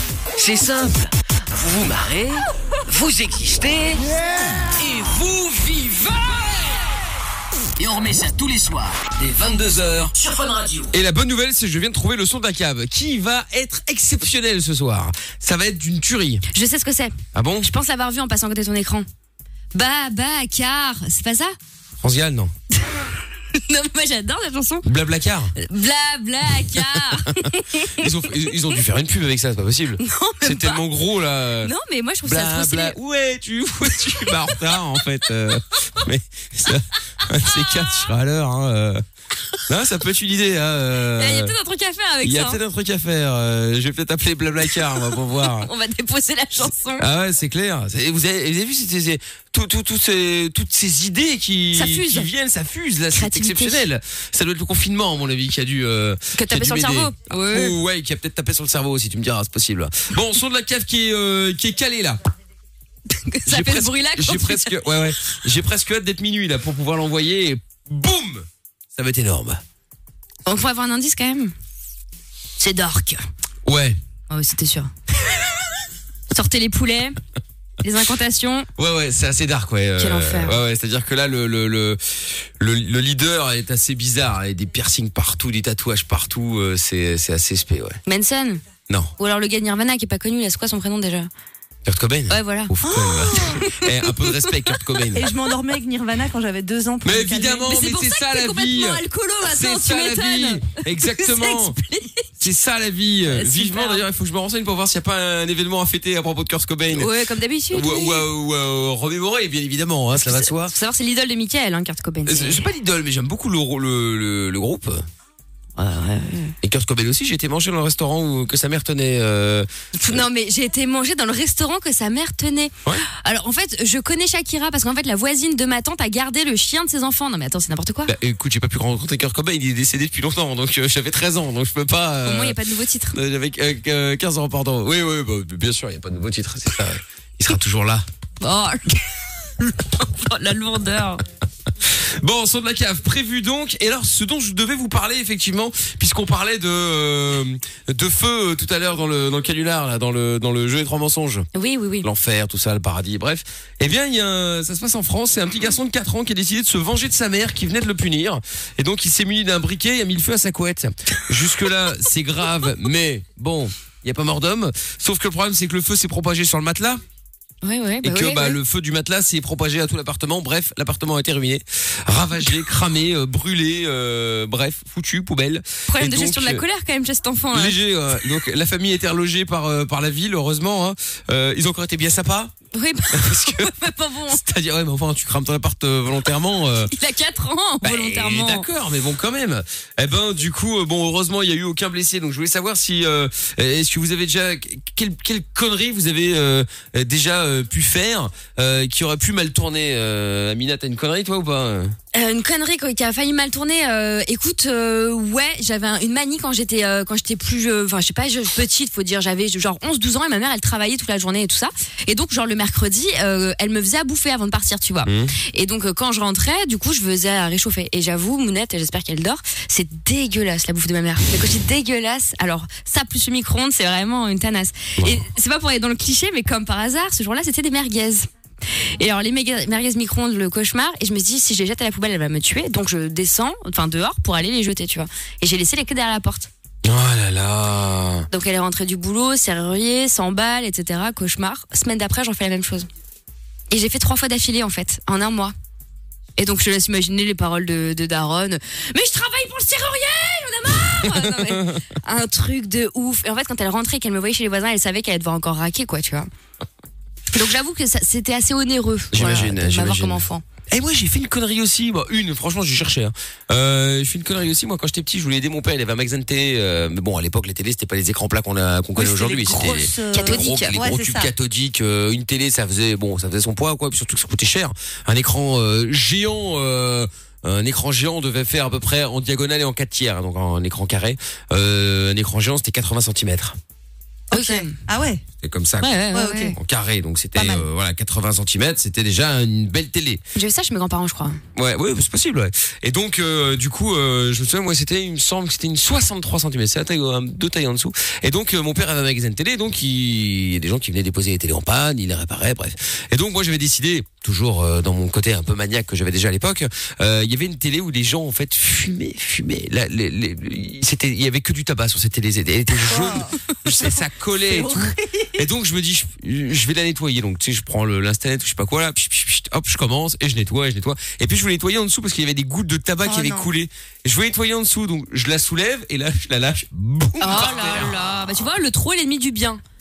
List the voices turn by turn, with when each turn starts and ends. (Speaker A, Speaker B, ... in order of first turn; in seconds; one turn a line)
Speaker A: 0.4-4.0
Speaker A: 4.7-6.6
Speaker A: 7.8-10.9
Speaker B: 10.9-16.4
Speaker C: 16.5-19.1
Speaker B: 17.3-17.7
Speaker C: 19.7-21.5
Speaker B: 22.0-22.5
Speaker C: 23.5-24.9
Speaker B: 24.8-25.5
Speaker C: 25.6-28.1
Speaker B: 27.8-31.7
Speaker C: 30.0-30.8
Speaker C: 31.6-33.0
Speaker B: 32.2-39.0
Speaker B: 39.7-41.5
Speaker C: 41.1-42.6
Speaker B: 42.2-45.7
Speaker C: 44.9-47.0
Speaker B: 47.0-62.2
Speaker C: 51.7-52.3
Speaker C: 53.1-53.8
Speaker C: 56.3-57.8
Speaker C: 63.1-65.2
Speaker B: 63.5-69.6
Speaker C: 70.5-71.5
Speaker C: 72.6-73.2
Speaker B: 73.7-74.0
Speaker C: 74.3-74.9
Speaker C: 76.3-77.2
Speaker C: 77.8-78.7
Speaker B: 78.8-88.0
Speaker C: 80.0-80.6
Speaker C: 88.0-88.6
Speaker C: 89.2-91.3
Speaker B: 91.8-95.2
Speaker C: 92.3-92.7
Speaker D: 92.8-93.6
Speaker C: 93.4-93.9
Speaker D: 95.1-97.7
Speaker B: 97.0-101.8
Speaker C: 97.7-102.3
Speaker B: 102.4-107.1
Speaker C: 103.2-104.0
Speaker C: 106.9-108.3
Speaker B: 107.7-110.7
Speaker C: 110.1-112.7
Speaker B: 112.2-115.0
Speaker C: 115.8-116.5
Speaker B: 116.6-120.2
Speaker C: 119.9-128.1
Speaker B: 128.1-132.6
Speaker C: 132.2-133.2
Speaker B: 133.1-138.0
Speaker C: 138.4-141.2
Speaker B: 141.8-151.5
Speaker C: 151.5-152.1
Speaker B: 152.0-167.0
Speaker C: 167.6-168.6
Speaker B: 168.0-176.6
Speaker C: 175.9-177.8
Speaker B: 177.5-182.5
Speaker C: 182.7-184.4
Speaker B: 183.1-183.7
Speaker B: 184.3-186.9
Speaker C: 186.8-188.7
Speaker B: 187.8-201.9
Speaker C: 202.1-228.3
Speaker B: 215.0-215.3
Speaker C: 229.0-236.5
Speaker B: 236.8-238.3
Speaker C: 238.3-242.9
Speaker C: 243.7-245.5
Speaker C: 246.4-256.3
Speaker C: 257.3-260.4
Speaker B: 259.1-283.6
Speaker D: 268.9-271.3
Speaker C: 270.1-270.8
Speaker C: 284.3-284.7
Speaker D: 284.3-285.2
Speaker B: 285.4-286.0
Speaker C: 285.8-286.5
Speaker D: 286.1-286.5
Speaker B: 286.6-290.2
Speaker C: 287.4-287.6
Speaker C: 290.3-291.4
Speaker B: 291.5-328.0
Speaker D: 312.9-313.3
Speaker D: 314.5-315.4
Speaker D: 323.0-323.5
Speaker C: 327.2-329.6